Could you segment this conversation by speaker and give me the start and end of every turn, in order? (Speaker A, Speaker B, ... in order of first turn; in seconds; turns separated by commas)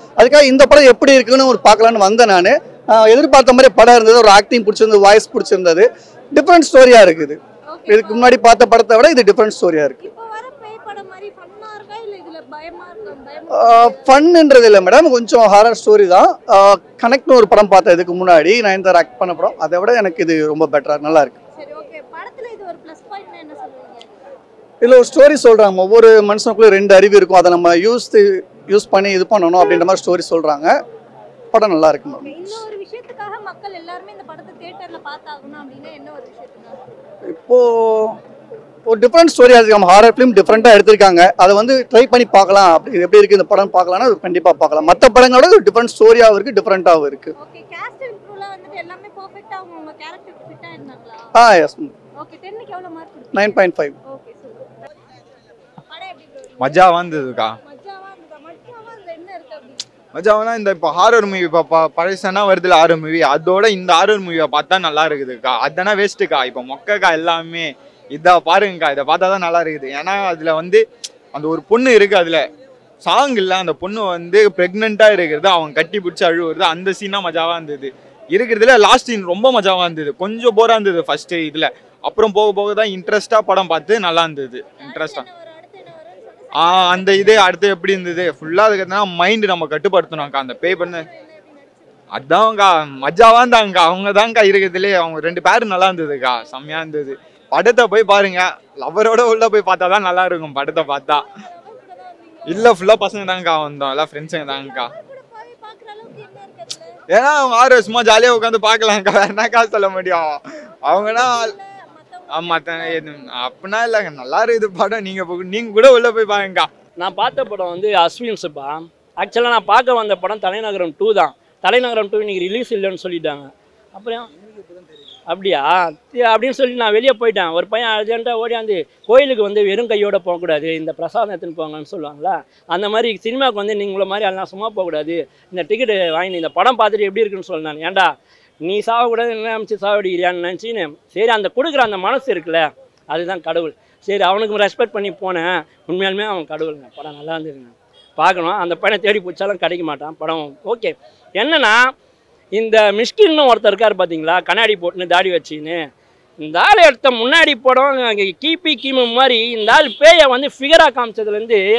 Speaker A: 0.2-10.0, Speaker B: 7.7-8.3, Speaker B: 10.0-14.1, Speaker A: 13.5-21.4, Speaker B: 21.5-24.1, Speaker A: 24.8-30.7, Speaker A: 31.5-32.6, Speaker B: 32.3-36.8, Speaker A: 37.3-38.1, Speaker A: 38.9-47.3, Speaker B: 47.4-51.3, Speaker A: 51.4-51.9, Speaker B: 52.2-54.6, Speaker A: 53.3-53.9, Speaker B: 55.9-57.1, Speaker C: 56.6-57.5, Speaker B: 57.6-59.8, Speaker C: 60.1-72.4, Speaker C: 73.0-85.2, Speaker B: 84.8-87.6, Speaker C: 86.5-91.0, Speaker B: 90.4-92.0, Speaker C: 92.1-101.2, Speaker B: 101.0-102.7, Speaker C: 102.5-104.9, Speaker B: 104.5-106.9, Speaker C: 107.1-111.5, Speaker B: 110.9-113.1, Speaker C: 112.3-116.7, Speaker D: 117.0-124.3, Speaker D: 125.3-138.1, Speaker D: 138.6-151.9, Speaker D: 152.5-155.8, Speaker D: 156.4-161.6